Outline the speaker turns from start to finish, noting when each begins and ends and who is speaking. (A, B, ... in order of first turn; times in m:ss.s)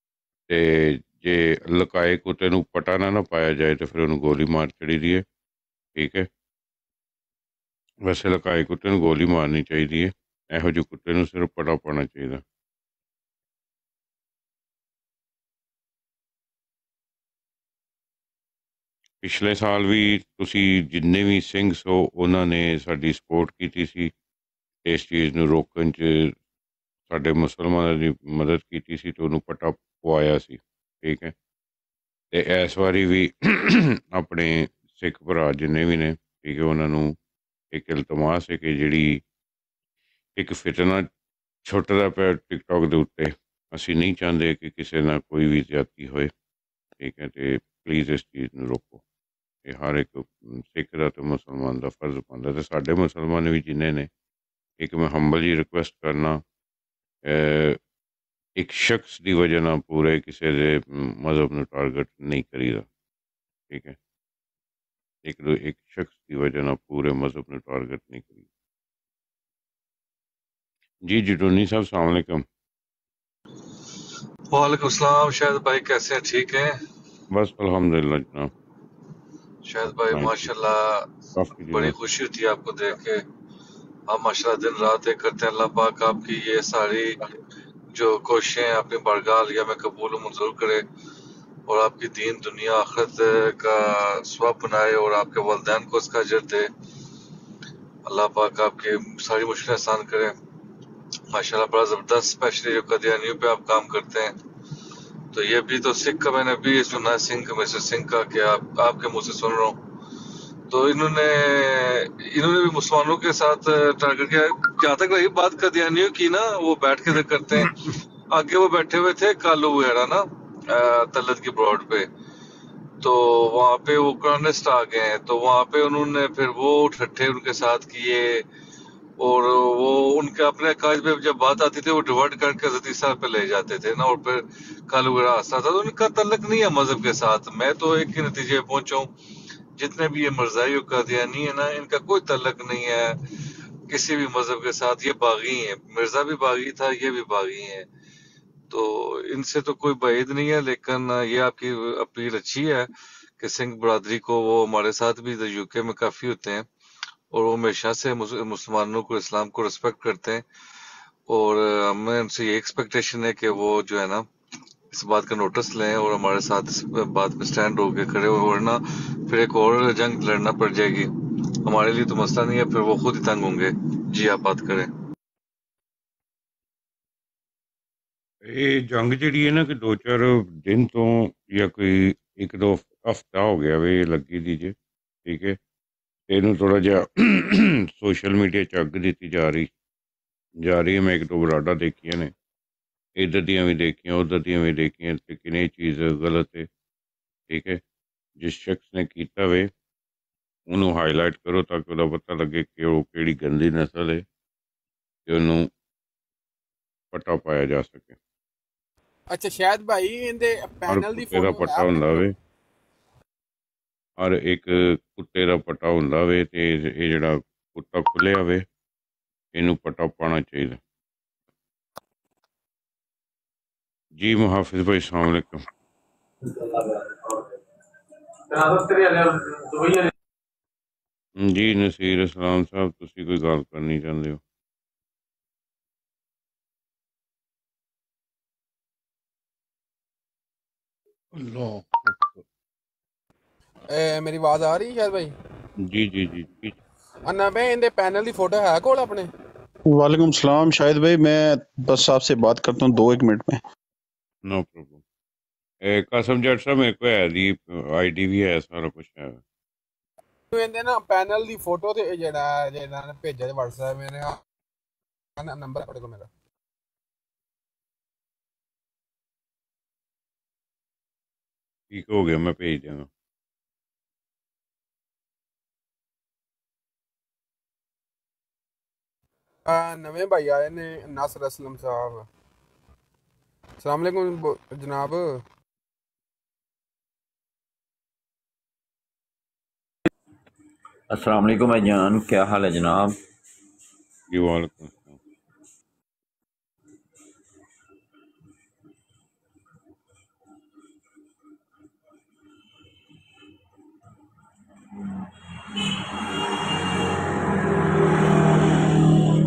0:00.5-0:05.2 A
0:06.0-0:06.3 A
0:08.0-0:12.4 A
0:19.2-0:24.1 A
0:24.8-0:26.4 A
0:27.1-0:31.3 A
0:32.3-0:37.1 A
0:37.7-0:39.2 A
0:40.4-0:41.1 A
0:41.6-0:46.3 A
0:47.0-0:49.0 A
0:49.6-0:54.1 A
0:54.8-0:56.4 A
0:57.3-0:57.8 A
0:58.6-1:02.8 A
1:03.7-1:04.0 A
1:05.2-1:08.4 A
1:11.1-1:12.4 A
1:14.5-1:16.7 B
1:17.3-1:18.5 A
1:19.6-1:21.1 B
1:20.1-1:20.5 A
1:21.3-1:21.9 A
1:21.7-1:23.2 B
1:24.1-1:27.2 B
1:27.9-1:30.8 B
1:31.7-1:36.7 B
1:38.0-1:40.3 B
1:41.3-1:44.3 B
1:45.3-1:49.8 B
1:50.7-2:02.1 B
2:03.0-2:08.4 B
2:09.2-2:19.1 B
2:19.8-2:23.2 B
2:23.9-2:27.9 B
2:28.7-2:32.9 B
2:33.4-2:36.6 B
2:37.3-2:40.4 B
2:41.3-2:44.3 B
2:44.9-2:51.1 B
2:51.6-2:54.9 B
2:58.4-3:04.7 A
3:05.2-3:05.6 A
3:06.3-3:09.7 A
3:10.6-3:12.3 A
3:13.2-3:16.7 A
3:17.5-3:17.8 A
3:18.4-3:19.7 A
3:20.7-3:24.2 A
3:25.3-3:25.6 A
3:27.1-3:28.2 A
3:29.3-3:32.2 C
3:30.9-3:32.3 A
3:34.2-3:38.6 A
3:39.5-3:40.8 A
3:44.2-3:45.6 A
3:51.4-3:54.4 A
4:03.9-4:05.3 C
4:05.8-4:06.8 A
4:07.3-4:09.3 C
4:09.9-4:13.6 D
4:14.4-4:15.0 A
4:15.9-4:19.4 A
4:20.5-4:24.4 C
4:25.4-4:26.3 C
4:31.9-4:33.1 A
4:39.6-4:42.3 C
4:43.8-4:45.4 C
4:51.1-4:53.1 E
4:54.3-4:55.2 A